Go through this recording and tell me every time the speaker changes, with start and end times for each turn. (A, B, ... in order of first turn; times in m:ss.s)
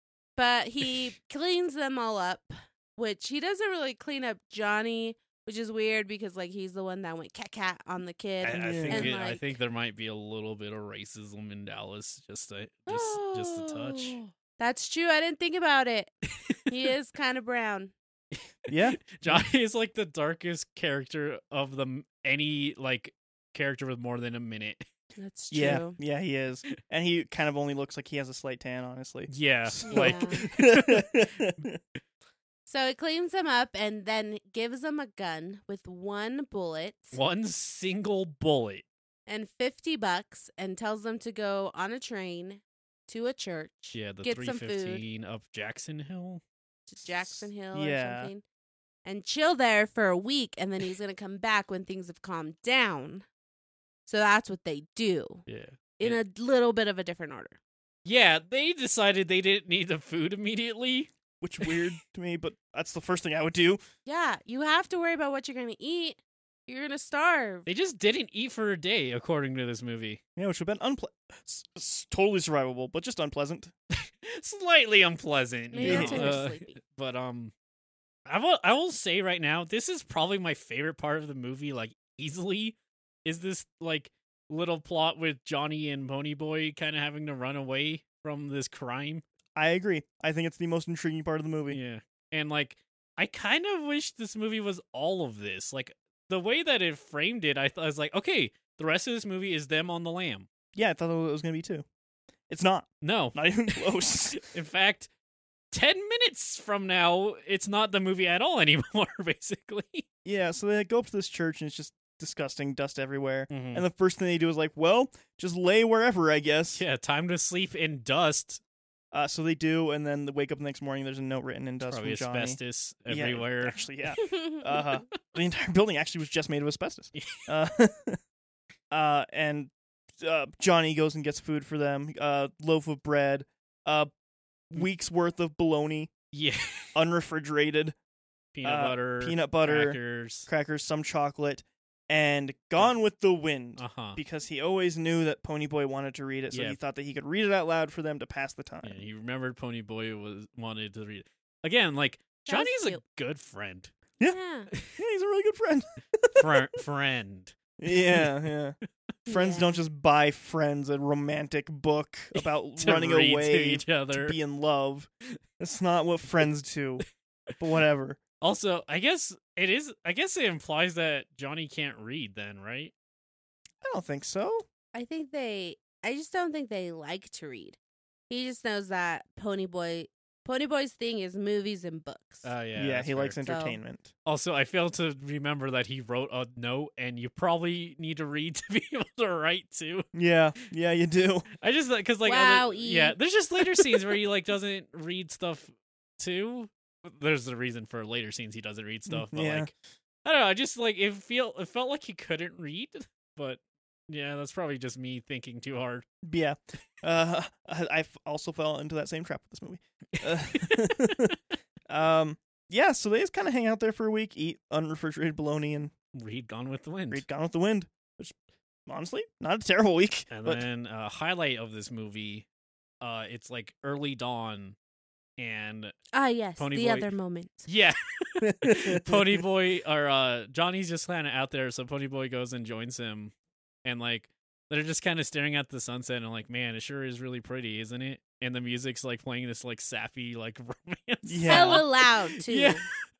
0:00.4-0:09.6 A
0:08.4-0:14.2 B
0:08.5-0:09.2 C
0:12.9-0:16.1 A
0:16.7-0:17.9 A
0:18.3-0:24.8 B
0:18.7-0:19.5 C
0:25.2-0:26.0 A
0:25.5-0:31.8 C
0:29.3-0:31.1 B
0:29.9-0:30.4 A
0:32.7-0:37.2 A
0:37.1-0:38.8 B
0:39.3-0:45.0 A
0:43.9-0:46.4 B
0:46.9-0:48.4 A
0:47.7-0:48.3 C
0:49.0-0:53.3 A
0:54.1-0:55.4 A
0:55.5-0:56.2 B
0:56.0-0:57.6 A
0:58.0-1:01.1 B
1:01.4-1:03.8 C
1:04.1-1:07.7 A
1:07.7-1:10.2 B
1:10.4-1:13.7 C
1:13.9-1:17.5 B
1:15.7-1:16.8 A
1:15.8-1:16.4 C
1:18.3-1:29.2 B
1:29.6-1:31.8 C
1:31.7-1:40.5 B
1:40.7-1:41.8 C
1:42.5-1:44.4 C
1:43.0-1:45.1 B
1:45.7-1:50.0 B
1:50.2-1:56.8 C
1:53.5-1:53.8 B
1:56.8-1:58.6 B
1:59.1-2:08.2 C
2:01.8-2:03.8 B
2:04.2-2:04.6 A
2:07.2-2:07.5 B
2:08.9-2:14.1 C
2:14.7-2:16.1 C
2:16.3-2:17.0 B
2:17.0-2:18.0 C
2:18.5-2:20.5 B
2:18.6-2:29.0 C
2:23.8-2:24.2 B
2:26.5-2:26.8 B
2:28.8-2:33.9 B
2:32.4-2:33.0 A
2:34.2-2:34.7 A
2:35.0-2:36.7 C
2:36.4-2:38.3 B
2:37.8-2:38.8 C
2:39.3-2:39.8 A
2:39.3-2:45.1 C
2:42.4-2:44.4 B
2:45.6-2:47.0 C
2:47.6-2:48.2 C
2:48.4-2:52.9 B
2:53.8-2:54.7 C
2:54.9-2:57.8 A
2:58.3-3:02.5 A
3:02.4-3:03.4 B
3:02.8-3:04.1 C
3:03.4-3:03.8 A
3:04.3-3:10.1 B
3:10.1-3:11.5 C
3:11.6-3:19.7 B
3:12.2-3:13.2 A
3:19.1-3:19.7 C
3:20.2-3:26.1 B
3:26.2-3:31.4 C
3:30.2-3:31.4 B
3:31.9-3:35.9 C
3:36.1-3:37.2 B
3:37.1-3:38.4 C
3:38.9-3:40.6 C
3:40.3-3:42.5 B
3:43.0-3:44.8 B
3:45.4-3:46.0 B
3:46.1-3:47.7 A
3:46.6-3:47.1 B
3:47.7-3:53.3 B
3:48.4-3:49.4 C
3:53.8-4:02.9 B
4:01.3-4:01.8 C
4:01.4-4:02.8 A